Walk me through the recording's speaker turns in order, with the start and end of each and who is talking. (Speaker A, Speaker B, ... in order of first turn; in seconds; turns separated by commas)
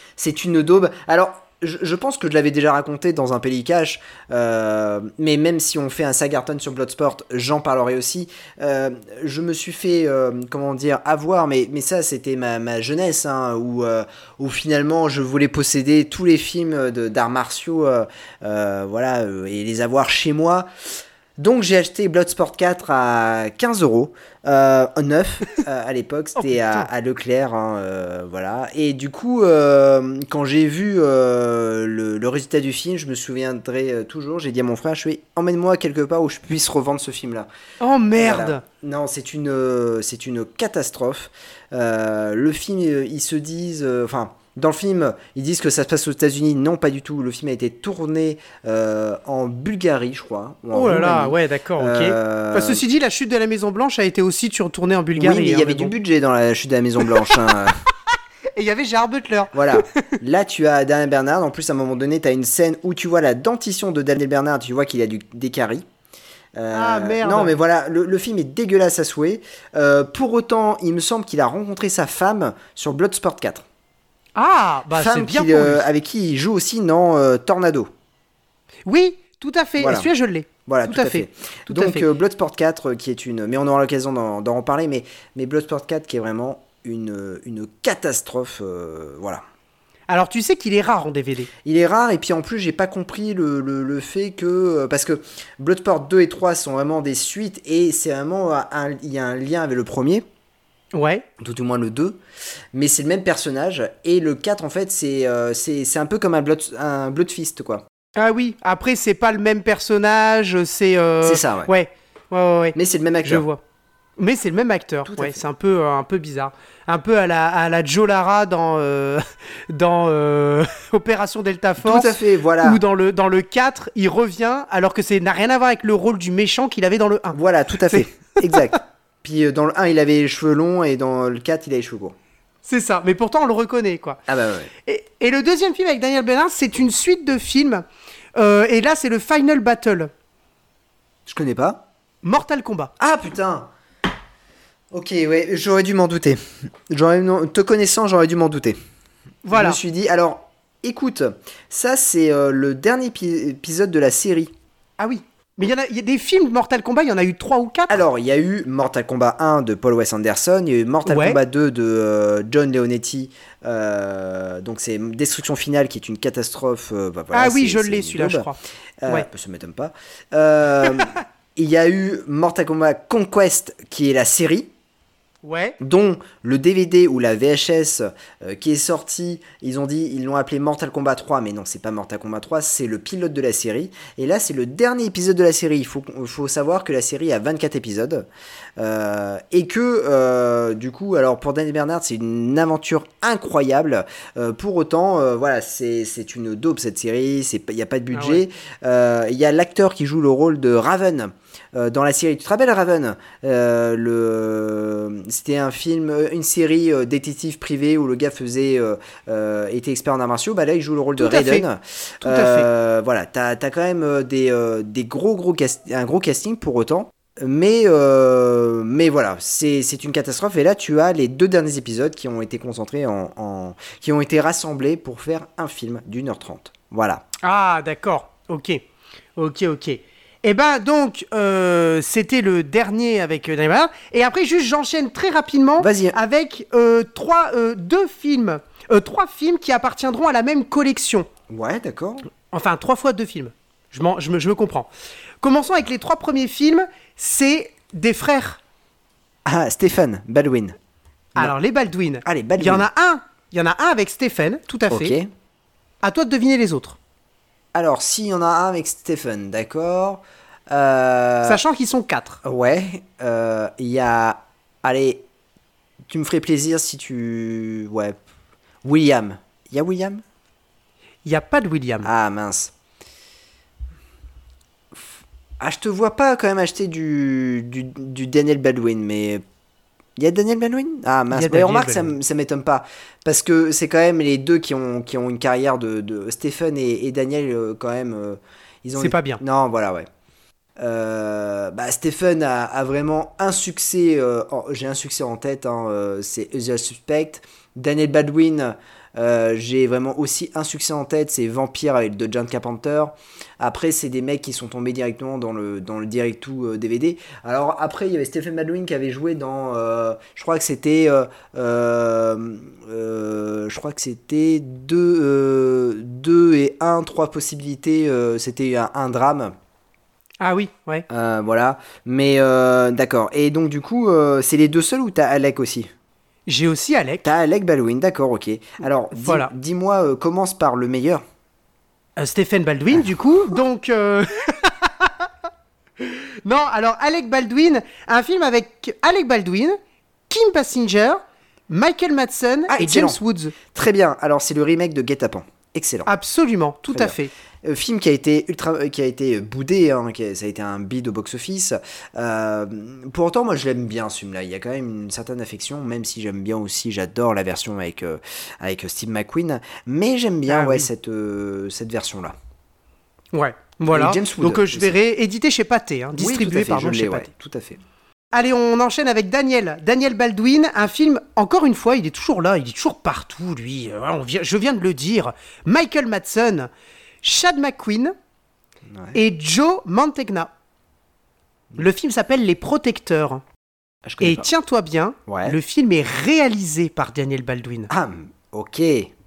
Speaker A: 0.2-20.7, Speaker A: 21.4-37.5, Speaker B: 26.4-26.9, Speaker B: 37.8-38.6, Speaker A: 38.2-52.8, Speaker B: 50.7-55.9, Speaker A: 55.2-57.8, Speaker B: 58.5-60.2, Speaker A: 59.5-65.8, Speaker A: 66.5-73.7, Speaker B: 66.7-67.5, Speaker B: 74.4-75.9, Speaker A: 74.9-77.9, Speaker B: 78.9-82.1, Speaker A: 79.8-80.1, Speaker A: 80.7-89.4, Speaker B: 90.1-91.5, Speaker A: 91.6-100.2, Speaker B: 100.9-101.3, Speaker A: 101.4-102.2, Speaker A: 102.7-107.8, Speaker B: 108.2-113.6, Speaker A: 111.2-111.7, Speaker A: 112.8-113.5, Speaker B: 114.2-128.8, Speaker A: 115.1-115.4, Speaker A: 121.8-122.8, Speaker A: 127.3-132.2, Speaker B: 132.7-134.2, Speaker A: 134.3-134.7, Speaker B: 134.8-140.1, Speaker A: 141.3-141.8, Speaker B: 142.2-142.9, Speaker A: 143.0-143.7, Speaker A: 144.9-148.8, Speaker B: 149.4-149.8, Speaker A: 149.5-154.5, Speaker B: 155.0-158.1, Speaker A: 157.9-168.5, Speaker B: 161.1-161.4, Speaker B: 167.3-169.3, Speaker A: 169.0-174.7, Speaker B: 175.4-175.8, Speaker A: 175.8-227.2, Speaker B: 198.1-198.4, Speaker B: 211.2-211.7, Speaker B: 212.2-212.7, Speaker B: 227.4-228.8, Speaker B: 229.4-241.3, Speaker A: 235.8-236.2, Speaker A: 241.5-242.3, Speaker B: 242.5-244.9, Speaker B: 245.4-248.6, Speaker A: 249.4-250.8, Speaker B: 251.4-255.2, Speaker A: 252.2-252.9, Speaker A: 254.9-255.3, Speaker B: 256.0-257.0, Speaker A: 257.7-261.6, Speaker B: 261.4-262.4, Speaker A: 262.4-265.2, Speaker A: 266.1-268.2, Speaker A: 268.8-270.2, Speaker B: 271.2-272.1, Speaker A: 272.0-272.7, Speaker A: 275.6-279.4, Speaker A: 280.2-290.1, Speaker B: 281.3-282.1, Speaker B: 289.0-289.4, Speaker A: 290.8-319.5, Speaker B: 320.4-321.1, Speaker A: 321.1-325.9, Speaker B: 326.5-327.3, Speaker A: 327.2-331.2, Speaker B: 329.1-329.5, Speaker B: 332.2-335.3, Speaker B: 336.0-339.8, Speaker B: 340.3-343.6, Speaker A: 342.7-346.1, Speaker B: 346.1-347.3, Speaker A: 346.9-362.4, Speaker B: 360.5-360.9, Speaker B: 363.3-367.3, Speaker A: 363.9-365.0, Speaker A: 366.1-367.8, Speaker B: 368.3-376.7, Speaker B: 377.2-378.1, Speaker A: 378.9-379.2, Speaker B: 379.1-380.5, Speaker B: 381.8-383.4, Speaker A: 384.1-384.5, Speaker B: 384.2-387.9, Speaker A: 385.3-385.6, Speaker A: 387.9-389.1